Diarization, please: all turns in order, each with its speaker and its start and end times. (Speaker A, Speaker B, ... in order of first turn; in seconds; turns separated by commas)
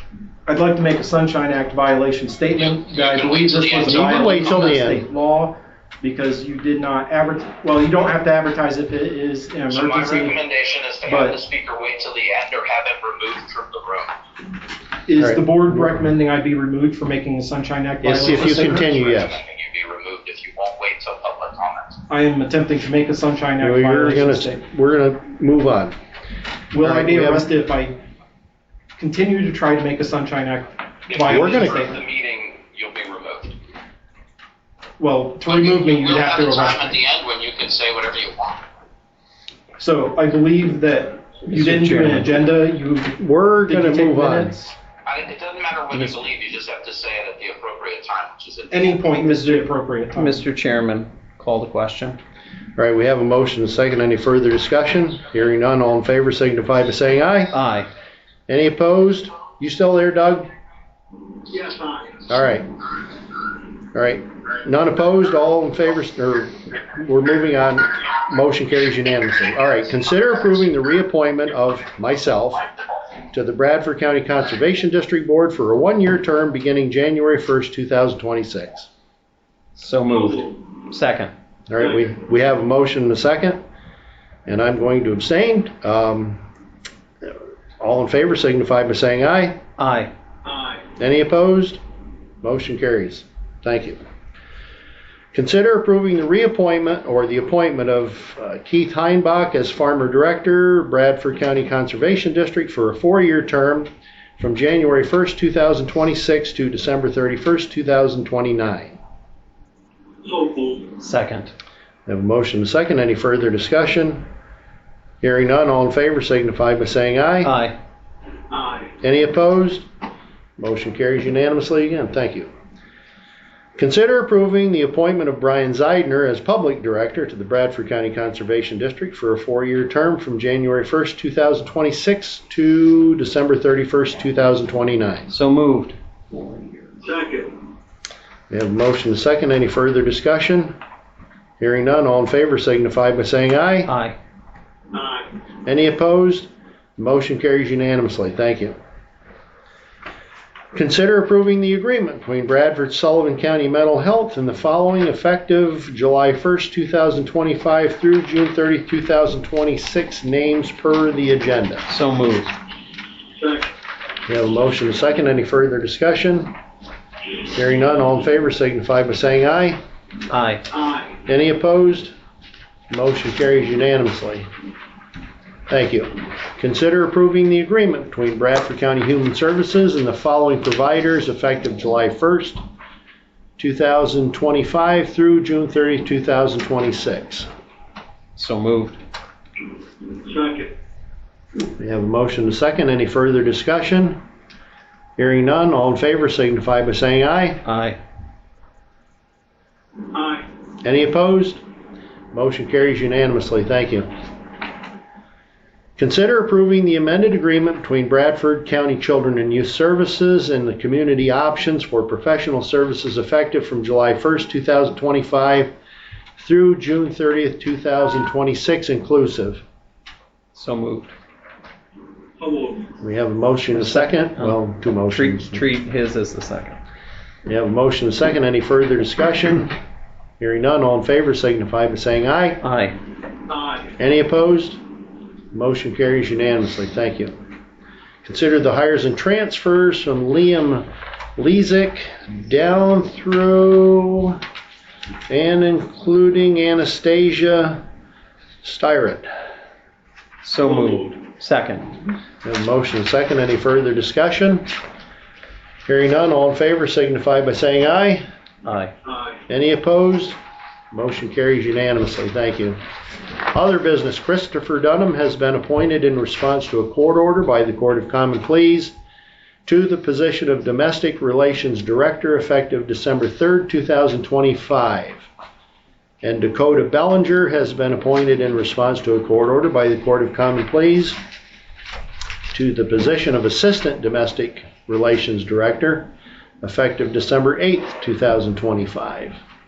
Speaker A: 0.5-10.4, Speaker B: 2.5-4.5, Speaker C: 3.9-5.0, Speaker B: 9.7-14.1, Speaker A: 11.0-11.4, Speaker A: 15.1-18.8, Speaker C: 15.2-16.0, Speaker C: 18.0-19.4, Speaker B: 18.2-22.0, Speaker A: 22.1-24.6, Speaker C: 23.6-25.9, Speaker A: 26.7-28.0, Speaker C: 26.8-27.5, Speaker A: 29.0-32.0, Speaker B: 31.1-33.5, Speaker C: 31.2-31.7, Speaker A: 35.0-37.0, Speaker B: 35.5-38.6, Speaker A: 39.8-44.7, Speaker D: 41.5-42.3, Speaker C: 43.2-44.5, Speaker B: 45.0-49.0, Speaker D: 45.9-46.2, Speaker A: 48.7-50.4, Speaker D: 49.2-52.2, Speaker C: 52.8-57.6, Speaker D: 57.5-57.9, Speaker C: 58.5-60.5, Speaker E: 61.5-62.1, Speaker C: 62.3-62.7, Speaker C: 63.9-72.7, Speaker C: 73.3-78.9, Speaker D: 79.8-81.3, Speaker E: 80.1-80.5, Speaker C: 81.7-83.6, Speaker C: 84.5-86.4, Speaker C: 87.2-89.6, Speaker D: 89.8-90.1, Speaker E: 90.4-90.8, Speaker C: 91.0-91.8, Speaker C: 92.4-94.0, Speaker C: 95.3-109.0, Speaker E: 110.2-111.0, Speaker D: 111.0-111.5, Speaker C: 112.0-114.2, Speaker C: 115.2-117.5, Speaker D: 117.4-117.7, Speaker E: 118.5-118.9, Speaker C: 119.0-119.8, Speaker C: 120.6-122.5, Speaker C: 123.8-135.3, Speaker D: 135.3-136.9, Speaker E: 137.0-137.5, Speaker C: 138.5-140.8, Speaker C: 141.6-143.9, Speaker D: 143.8-144.2, Speaker E: 144.9-145.2, Speaker C: 145.6-148.7, Speaker C: 150.7-161.9, Speaker D: 161.9-162.5, Speaker E: 163.4-163.7, Speaker C: 164.3-166.5, Speaker C: 167.5-169.8, Speaker D: 170.3-170.6, Speaker E: 170.8-171.0, Speaker C: 171.2-172.1, Speaker C: 172.9-174.5, Speaker C: 175.7-182.6, Speaker C: 183.6-187.5, Speaker D: 188.3-189.0, Speaker E: 190.2-190.7, Speaker C: 191.8-194.2, Speaker C: 195.2-197.6, Speaker D: 197.6-198.0, Speaker E: 200.1-200.4, Speaker C: 200.8-201.6, Speaker C: 202.3-204.1, Speaker C: 206.0-215.7, Speaker C: 216.4-219.6, Speaker D: 220.5-221.1, Speaker E: 222.4-222.9, Speaker C: 223.0-225.6, Speaker D: 223.7-226.8, Speaker C: 227.4-229.8, Speaker C: 230.4-232.6, Speaker D: 232.6-233.0, Speaker E: 233.5-233.9, Speaker C: 234.0-234.8, Speaker C: 235.5-237.3, Speaker C: 238.2-240.8, Speaker C: 241.4-244.4, Speaker C: 245.3-247.8, Speaker C: 248.6-249.3, Speaker D: 250.4-252.0, Speaker E: 250.7-250.9, Speaker C: 252.4-254.7, Speaker C: 255.8-258.2, Speaker D: 258.6-258.9, Speaker C: 259.5-260.4, Speaker C: 260.9-262.8, Speaker C: 263.5-268.9, Speaker C: 269.6-275.3, Speaker C: 276.2-281.2, Speaker C: 282.5-286.1, Speaker C: 286.6-289.4